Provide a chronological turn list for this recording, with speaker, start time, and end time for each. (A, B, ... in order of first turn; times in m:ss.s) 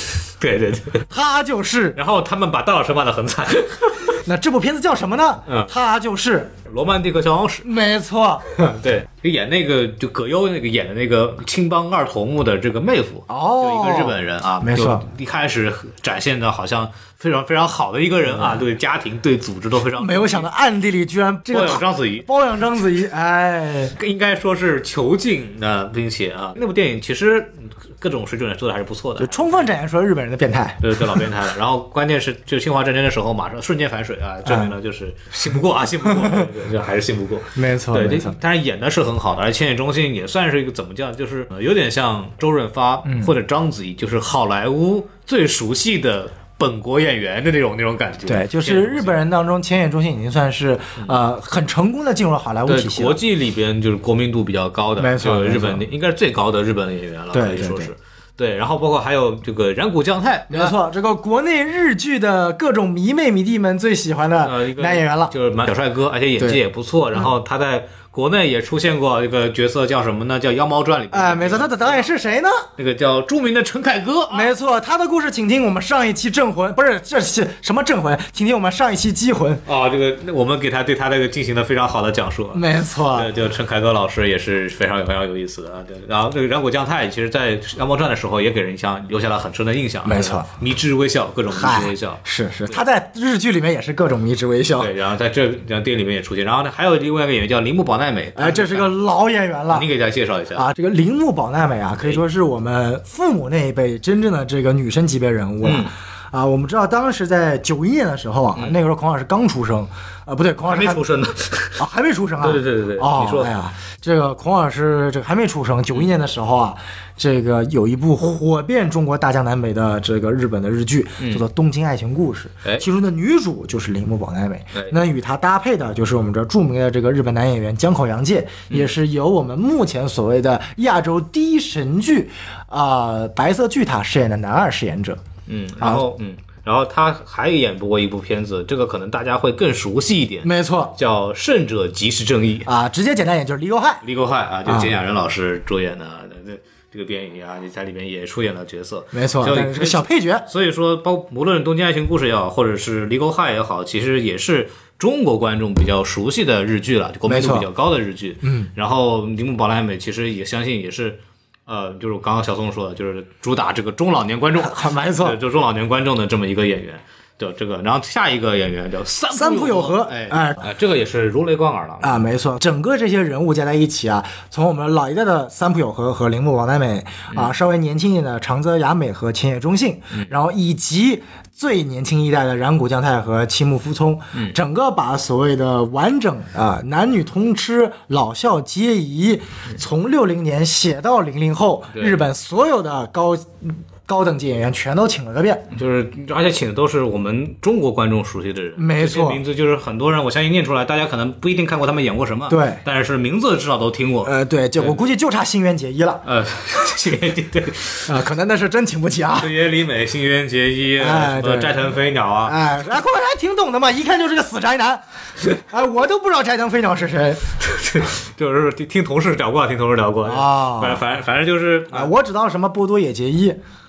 0:00.4-0:01.0 A
0:01.1-0:02.0 B
0:02.0-0:04.2 A
0:04.2-0:06.5 B
0:05.5-0:05.7 A
0:06.7-0:07.7 A
0:07.6-0:08.4 B
0:08.5-0:20.5 A
0:13.3-0:15.0 B
0:18.3-0:18.6 B
0:20.0-0:23.9 B
0:21.5-0:22.3 A
0:24.0-0:29.6 A
0:29.2-0:31.2 B
0:30.8-0:49.2 A
0:34.4-0:34.7 B
0:36.1-0:36.5 B
0:37.6-0:38.4 B
0:43.0-0:43.3 B
0:48.3-0:53.2 B
0:52.6-1:00.7 A
0:55.0-0:55.8 B
0:57.3-0:57.9 B
1:00.5-1:05.3 B
1:04.4-1:12.1 A
1:11.1-1:12.7 B
1:12.8-1:14.5 A
1:14.3-1:19.6 B
1:19.6-1:32.8 A
1:22.5-1:23.3 B
1:30.0-1:30.5 B
1:31.5-1:34.9 B
1:34.8-1:38.9 A
1:38.4-1:39.9 B
1:39.7-1:40.6 A
1:40.6-1:51.0 B
1:45.6-1:45.9 A
1:50.6-1:51.8 A
1:51.8-2:15.2 B
1:52.4-1:53.5 A
2:01.2-2:01.4 A
2:15.4-2:22.7 A
2:20.4-2:20.9 B
2:22.6-2:24.0 B
2:24.0-2:52.2 A
2:24.6-2:24.9 B
2:29.1-2:30.5 B
2:37.2-2:37.7 B
2:38.4-2:38.7 B
2:44.6-2:45.4 B
2:49.3-2:50.7 B
2:52.0-3:15.7 B
3:11.9-3:12.2 A
3:15.7-3:25.0 A
3:18.8-3:19.4 B
3:22.5-3:22.8 B
3:24.2-3:26.2 B
3:26.2-3:28.1 A
3:28.0-3:29.5 B
3:29.4-3:32.6 A
3:31.0-3:35.0 B
3:35.5-3:37.4 B
3:37.6-3:42.1 A
3:40.2-3:41.0 B
3:41.9-3:43.6 B